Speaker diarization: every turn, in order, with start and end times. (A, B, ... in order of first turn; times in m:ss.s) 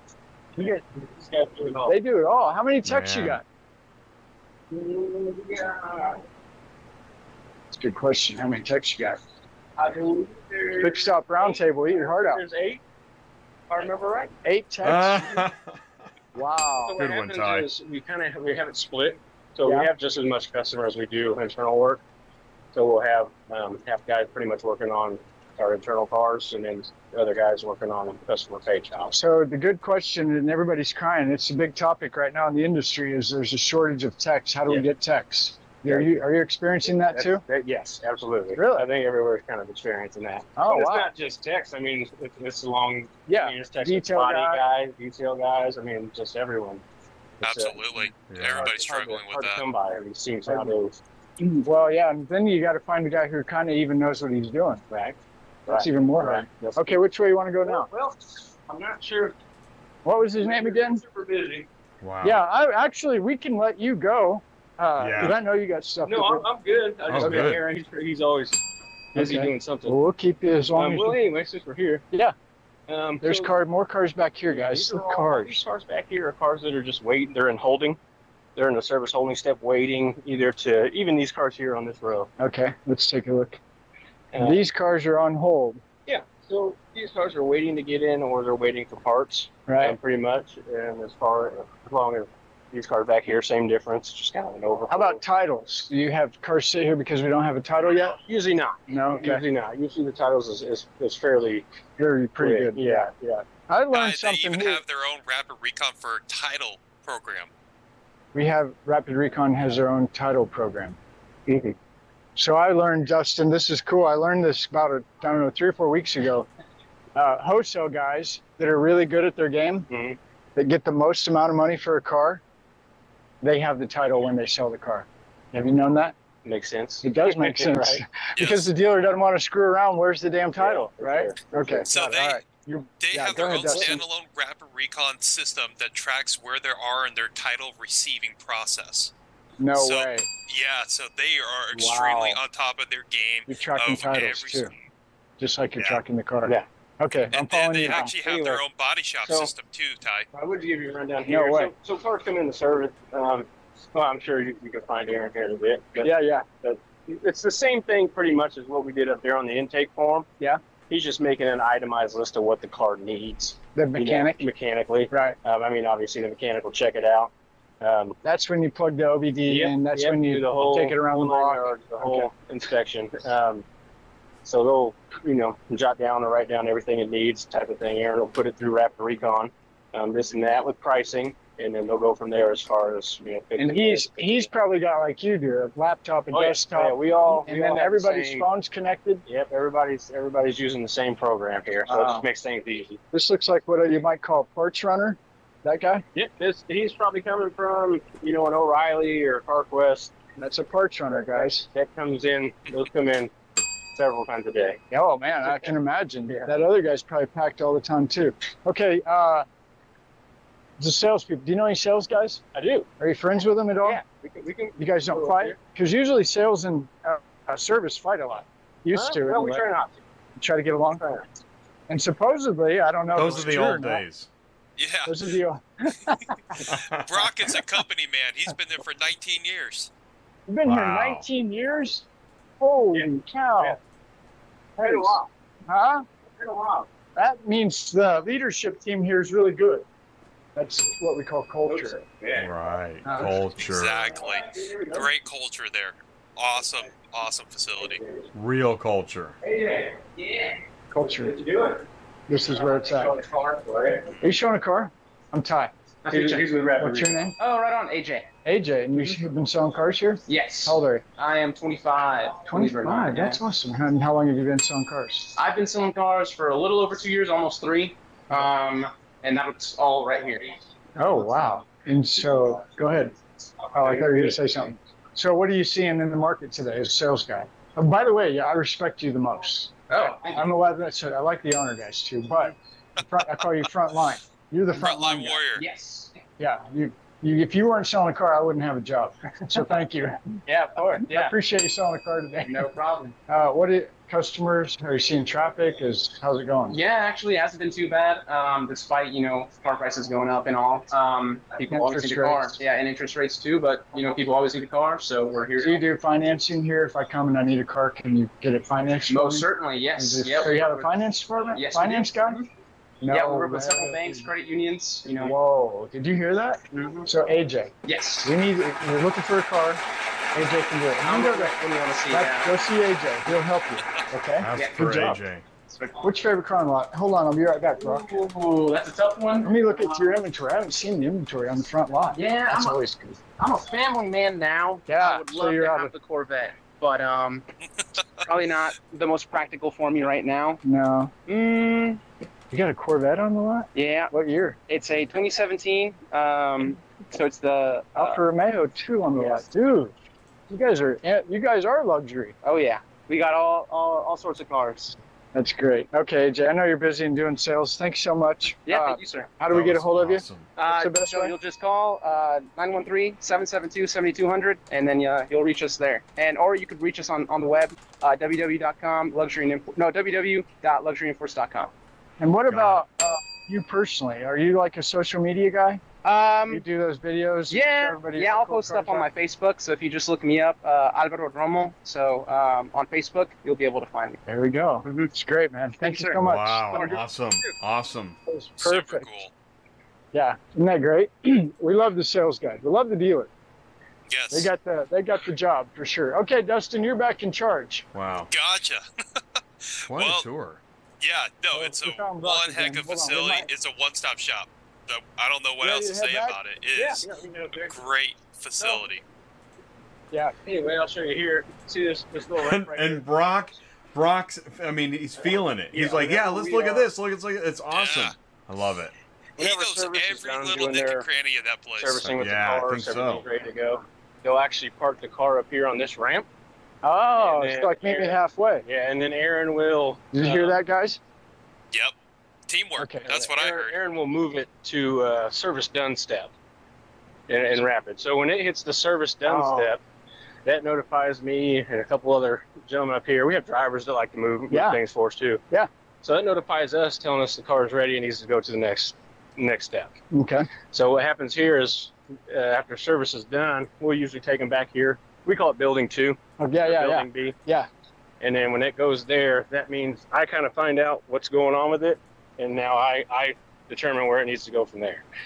0:00.6-0:02.0 A
0:01.9-0:03.4 B
0:02.8-0:03.4 C
0:04.7-0:06.2 A
0:07.7-0:09.2 B
0:09.8-0:12.8 A
0:10.8-0:12.4 B
0:13.7-0:14.3 A
0:14.4-0:15.4 B
0:14.8-0:15.8 C
0:16.4-0:17.0 B
0:16.8-0:22.0 A
0:17.0-0:17.7 C
0:19.6-0:19.9 B
0:22.7-0:29.1 A
0:29.1-0:37.4 B
0:35.8-0:36.3 A
0:36.9-0:46.8 A
0:38.6-0:38.9 B
0:40.6-0:41.1 B
0:43.3-0:44.6 B
0:47.4-0:51.0 A
0:47.4-0:49.6 D
0:48.3-0:48.8 C
0:50.5-0:50.7 B
0:51.4-0:54.8 B
0:54.9-0:57.0 A
0:55.7-0:57.9 B
0:57.6-0:59.4 A
1:00.0-1:01.0 B
1:00.4-1:01.7 A
1:02.0-1:02.4 C
1:02.2-1:06.4 B
1:05.0-1:05.4 C
1:06.0-1:08.6 A
1:07.1-1:07.6 C
1:07.2-1:07.5 B
1:09.1-1:10.0 A
1:09.1-1:11.2 B
1:10.8-1:12.0 A
1:12.9-1:13.5 A
1:13.2-1:15.6 B
1:14.5-1:18.0 A
1:18.6-1:22.3 A
1:22.4-1:23.6 B
1:24.3-1:24.6 A
1:24.4-1:25.8 B
1:26.1-1:35.2 A
1:29.7-1:30.0 B
1:34.9-1:38.2 B
1:38.2-1:41.6 A
1:38.9-1:39.4 B
1:42.0-1:43.1 B
1:42.4-1:43.4 A
1:43.7-1:44.8 B
1:43.9-1:47.5 D
1:48.3-1:51.0 B
1:51.5-1:51.8 A
1:52.4-1:56.5 B
1:57.1-1:59.9 B
1:59.9-2:00.2 A
2:00.6-2:02.4 B
2:03.4-2:06.1 B
2:06.4-2:08.0 A
2:07.0-2:14.0 B
2:08.4-2:08.7 D
2:10.6-2:11.9 A
2:11.9-2:12.5 D
2:13.0-2:19.1 D
2:13.7-2:14.0 A
2:19.6-2:20.3 B
2:19.8-2:24.7 D
2:21.8-2:22.4 A
2:23.5-2:24.7 B
2:25.4-2:28.1 B
2:27.3-2:30.3 D
2:27.8-2:28.6 A
2:29.2-2:29.5 A
2:30.3-2:40.3 A
2:31.2-2:31.7 B
2:36.0-2:36.4 B
2:40.9-2:48.2 A
2:43.8-2:44.4 B
2:45.1-2:45.4 B
2:48.2-2:52.3 B
2:49.5-2:53.6 A
2:54.4-3:04.5 A
3:03.6-3:09.2 B
3:06.3-3:08.5 A
3:09.3-3:13.0 A
3:11.9-3:12.2 B
3:13.1-3:16.0 B
3:16.1-3:20.1 A
3:20.4-3:21.7 B
3:21.3-3:23.3 A
3:24.0-3:24.8 A
3:24.9-3:29.4 B
3:30.8-3:32.4 B
3:32.5-3:32.9 A
3:33.0-3:34.0 B
3:33.9-3:35.6 A
3:34.8-3:39.6 B
3:38.9-3:40.0 A
3:40.4-3:41.2 B
3:41.9-3:44.0 B
3:43.1-3:44.3 C
3:44.8-3:45.3 D
3:45.1-3:46.6 B
3:46.6-3:47.3 C
3:47.0-3:49.9 D
3:50.5-3:52.0 B
3:50.6-3:51.3 C
3:52.6-3:53.8 B
3:54.8-3:55.3 A
3:54.8-3:56.0 B
3:56.4-3:56.9 A
3:57.1-3:59.8 B
4:00.6-4:02.0 B
4:01.7-4:02.5 A
4:02.4-4:04.2 C
4:03.0-4:03.3 B
4:03.6-4:08.0 D
4:04.6-4:05.0 A
4:08.3-4:09.4 C
4:09.5-4:10.5 A
4:10.9-4:11.4 B
4:11.4-4:11.8 A
4:12.3-4:13.1 B
4:13.0-4:14.1 A
4:14.2-4:15.7 B
4:16.0-4:16.5 E
4:16.1-4:17.2 A
4:16.8-4:17.4 B
4:17.4-4:18.3 E
4:18.4-4:21.0 B
4:20.3-4:23.4 E
4:22.5-4:25.4 B
4:25.4-4:30.6 E
4:31.0-4:33.1 B
4:33.7-4:45.4 B
4:33.9-4:34.3 A
4:39.9-4:40.5 E
4:44.7-4:45.6 D
4:45.6-4:46.1 E
4:46.4-4:50.4 B
4:50.4-4:51.3 E
4:51.0-4:52.7 B
4:52.4-4:53.2 E
4:53.3-4:56.8 B
4:56.7-5:05.8 E
5:01.7-5:02.6 B
5:05.6-5:12.4 B
5:09.1-5:10.9 E
5:11.5-5:12.5 E
5:13.0-5:14.3 B
5:13.1-5:15.4 E
5:15.1-5:19.8 B
5:16.7-5:17.1 E
5:17.8-5:18.4 E
5:20.3-5:21.6 B
5:21.0-5:22.6 E
5:22.1-5:25.2 B
5:24.4-5:25.4 C
5:24.5-5:25.0 E
5:25.7-5:26.1 E
5:26.0-5:28.1 B
5:27.8-5:30.1 E
5:29.4-5:33.2 B
5:32.1-5:32.8 E
5:33.4-5:37.4 E
5:34.9-5:35.9 B
5:38.2-5:40.6 E
5:40.6-5:41.1 B
5:41.3-5:42.0 E
5:42.5-5:44.6 B
5:43.7-5:44.1 E
5:44.7-5:48.2 E
5:48.0-5:49.9 B
5:49.2-5:49.4 E
5:50.5-5:52.4 B
5:52.4-5:55.0 E
5:55.3-6:01.4 B
5:58.7-5:59.3 E
5:59.5-6:00.5 C
6:00.6-6:11.7 E
6:12.2-6:15.8 B
6:12.5-6:12.8 C
6:16.0-6:16.6 E
6:16.5-6:19.1 B
6:17.5-6:24.2 E
6:24.3-6:26.9 B
6:25.8-6:27.0 E
6:26.2-6:28.2 C
6:28.3-6:29.1 B
6:28.6-6:29.3 D
6:30.1-6:33.3 B
6:34.1-6:34.5 D
6:34.3-6:37.9 B
6:37.9-6:38.3 C
6:38.3-6:38.8 D
6:39.7-6:40.2 D
6:39.9-6:40.6 C
6:41.0-6:47.0 D
6:41.5-6:43.5 B
6:45.6-6:46.4 B
6:46.8-6:47.7 A
6:47.6-6:49.0 D
6:50.4-6:53.1 A
6:52.4-6:58.9 C
6:55.7-6:56.8 A
6:57.7-6:58.1 D
6:59.4-7:02.1 D
6:59.4-7:01.1 A
7:01.8-7:06.3 A
7:02.0-7:03.2 C
7:06.8-7:08.6 B
7:07.2-7:10.6 A
7:10.1-7:11.0 B
7:12.5-7:13.7 D
7:12.8-7:13.3 B
7:13.1-7:16.3 A
7:17.3-7:19.8 A
7:19.2-7:19.7 B
7:20.4-7:25.4 A
7:24.5-7:24.8 B
7:26.0-7:29.9 A
7:30.1-7:30.5 B
7:30.7-7:37.4 A
7:36.4-7:37.7 B
7:38.2-7:45.1 A